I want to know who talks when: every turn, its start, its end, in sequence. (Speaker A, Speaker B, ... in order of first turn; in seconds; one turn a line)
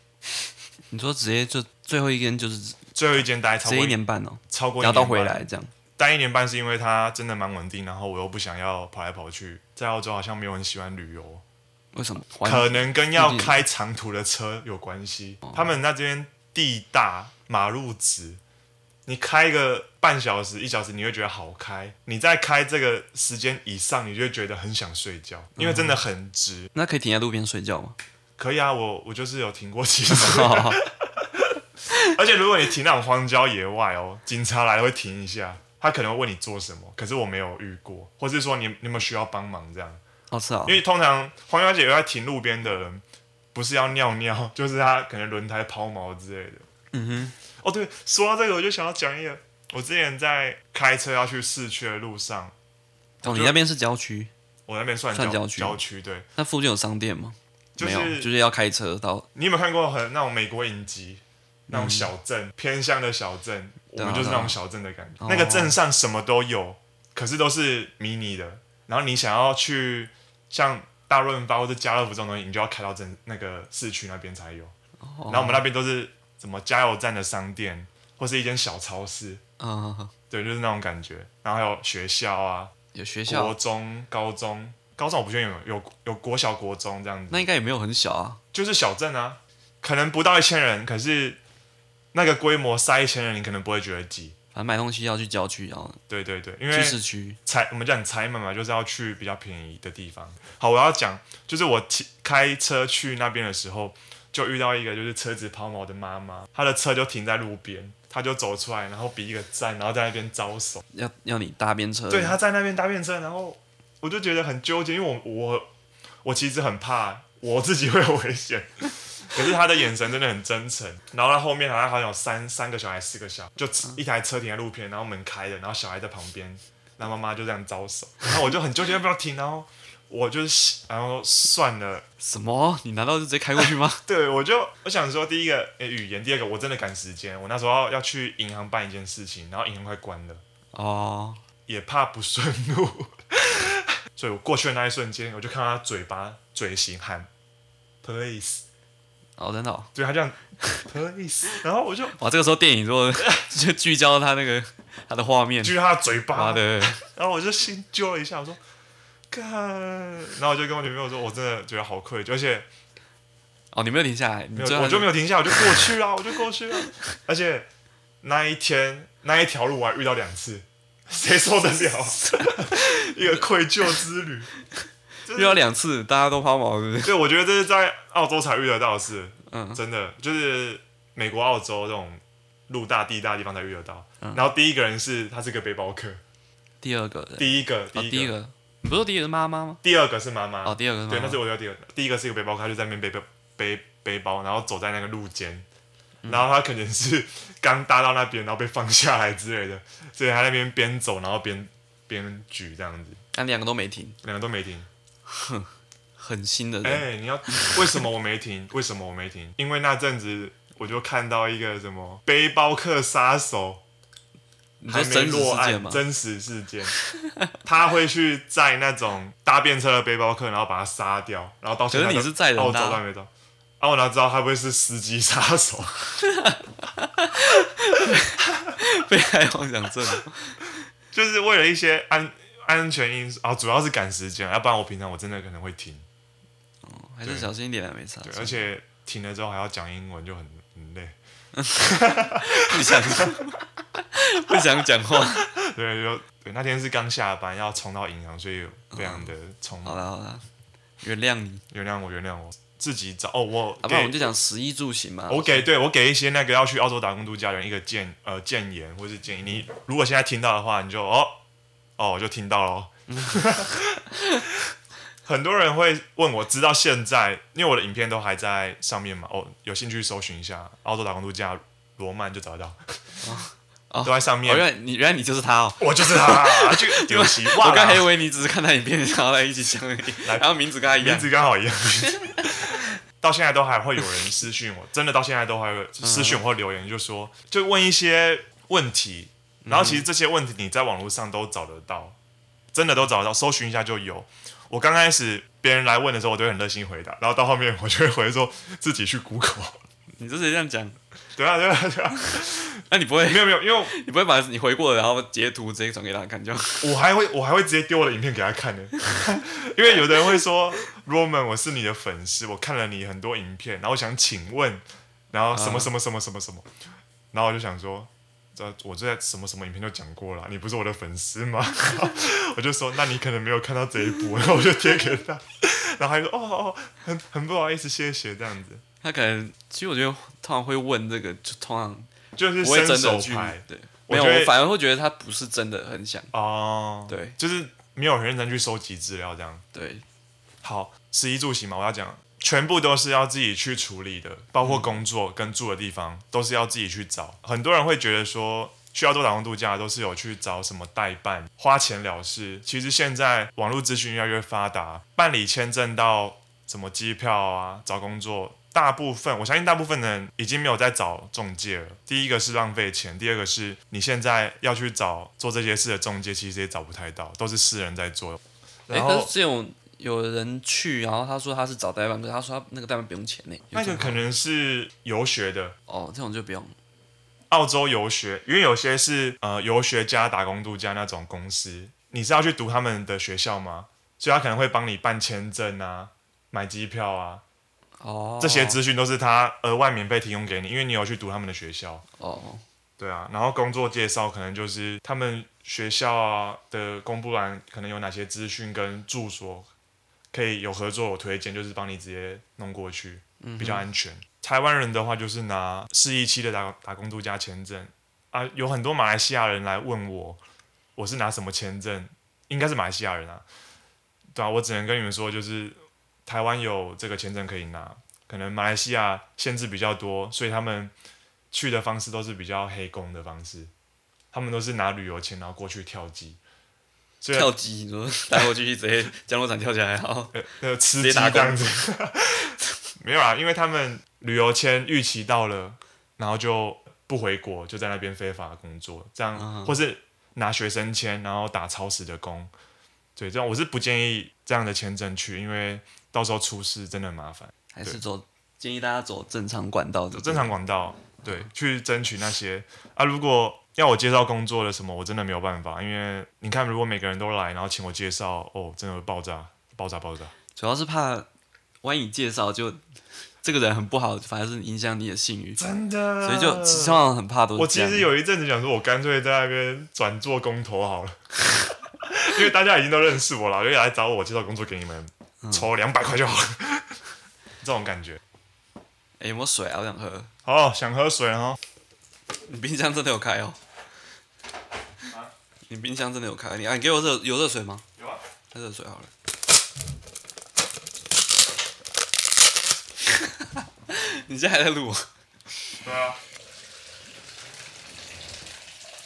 Speaker A: 0.9-2.9
Speaker B: 2.9-4.0
Speaker A: 3.6-5.7
Speaker B: 4.5-5.4
Speaker B: 6.0-11.4
Speaker A: 11.9-13.6
Speaker B: 12.4-18.4
Speaker B: 19.1-26.7
Speaker A: 25.6-26.0
Speaker A: 26.8-28.0
Speaker B: 28.4-40.0
Speaker A: 30.1-30.8
Speaker A: 40.3-40.8
Speaker B: 40.6-43.0
Speaker B: 43.5-46.6
Speaker A: 46.9-47.4
Speaker B: 47.6-52.5
Speaker B: 53.2-53.6
Speaker A: 53.2-54.3
Speaker B: 54.7-56.3
Speaker A: 55.1-55.8
Speaker A: 56.4-59.3
Speaker B: 57.8-58.3
Speaker B: 59.4-74.7
Speaker A: 61.7-62.1
Speaker A: 64.0-64.6
Speaker A: 65.2-65.8
Speaker A: 75.0-75.6
Speaker B: 75.3-79.4
Speaker A: 79.6-80.1
Speaker B: 80.3-82.7
Speaker A: 82.9-83.5
Speaker B: 83.3-87.5
Speaker A: 87.3-88.4
Speaker B: 88.5-91.4
Speaker B: 92.1-94.3
Speaker A: 94.5-96.0
Speaker B: 96.1-110.8
Speaker A: 96.7-97.4
Speaker A: 110.9-112.4
Speaker B: 112.1-115.7
Speaker B: 116.2-132.0
Speaker A: 132.2-134.0
Speaker B: 134.0-140.4
Speaker A: 140.7-141.4
Speaker B: 141.7-147.3
Speaker B: 148.0-148.6
Speaker A: 149.4-149.9
Speaker B: 149.9-152.2
Speaker A: 152.1-155.8
Speaker B: 155.6-158.6
Speaker A: 156.3-157.0
Speaker B: 159.3-162.7
Speaker A: 163.7-165.9
Speaker B: 164.6-167.7
Speaker B: 168.2-174.5
Speaker A: 172.2-173.4
Speaker B: 175.3-175.6
Speaker A: 175.3-177.1
Speaker B: 177.0-186.2
Speaker A: 179.5-179.8
Speaker A: 186.8-189.8
Speaker B: 187.4-188.3
Speaker B: 189.8-195.6
Speaker A: 190.6-191.4
Speaker B: 196.3-203.2
Speaker A: 203.3-204.2
Speaker B: 204.2-204.9
Speaker A: 205.2-208.0
Speaker B: 206.8-213.8
Speaker A: 214.8-216.0
Speaker B: 214.9-216.9
Speaker A: 216.9-217.5
Speaker B: 217.6-226.1
Speaker A: 221.9-223.0
Speaker A: 226.2-230.8
Speaker B: 231.1-236.0
Speaker A: 236.8-238.6
Speaker B: 238.2-241.2
Speaker A: 241.5-245.5
Speaker B: 241.7-243.4
Speaker B: 245.4-250.1
Speaker A: 248.9-249.3
Speaker A: 249.8-250.4
Speaker A: 251.0-251.6
Speaker B: 251.7-254.3
Speaker A: 253.8-255.7
Speaker B: 255.3-261.4
Speaker B: 262.0-264.0
Speaker A: 263.1-264.4
Speaker B: 265.2-272.8
Speaker A: 273.2-281.3
Speaker B: 274.0-274.7
Speaker B: 275.8-278.1
Speaker B: 280.2-292.2
Speaker A: 286.0-286.4
Speaker A: 289.6-290.1
Speaker B: 292.7-299.8
Speaker A: 300.2-301.0
Speaker B: 301.4-303.9
Speaker A: 302.4-307.0
Speaker B: 306.8-316.7
Speaker A: 315.5-315.9
Speaker B: 317.3-328.8
Speaker A: 329.0-336.3
Speaker B: 332.4-334.5
Speaker B: 336.3-339.6
Speaker A: 337.1-337.4
Speaker A: 339.7-340.0
Speaker B: 340.6-369.3
Speaker A: 344.6-345.0
Speaker A: 368.9-374.2
Speaker B: 373.7-375.8
Speaker A: 375.9-376.8
Speaker B: 377.5-387.4
Speaker A: 388.0-388.8
Speaker B: 388.4-392.0
Speaker A: 392.2-392.6
Speaker B: 393.0-399.7
Speaker B: 400.3-410.4
Speaker A: 403.4-403.8
Speaker B: 411.0-413.4
Speaker B: 414.3-420.9
Speaker B: 421.5-423.7
Speaker B: 424.3-426.4
Speaker B: 427.2-427.5
Speaker A: 427.3-430.3
Speaker B: 430.3-442.5
Speaker A: 431.0-431.8
Speaker A: 439.4-439.8
Speaker B: 443.2-448.0
Speaker A: 447.7-450.5
Speaker B: 450.1-460.3
Speaker A: 460.6-461.3
Speaker A: 461.8-462.8
Speaker A: 463.4-465.6
Speaker B: 465.6-467.0
Speaker A: 466.2-468.1
Speaker B: 467.5-471.2
Speaker B: 472.0-477.0
Speaker B: 477.6-478.2
Speaker A: 479.2-480.3
Speaker B: 480.4-481.6
Speaker A: 482.4-483.6
Speaker B: 485.1-485.3
Speaker A: 485.7-487.8
Speaker B: 488.0-488.2
Speaker A: 488.5-489.1
Speaker A: 493.0-495.1
Speaker B: 495.8-496.2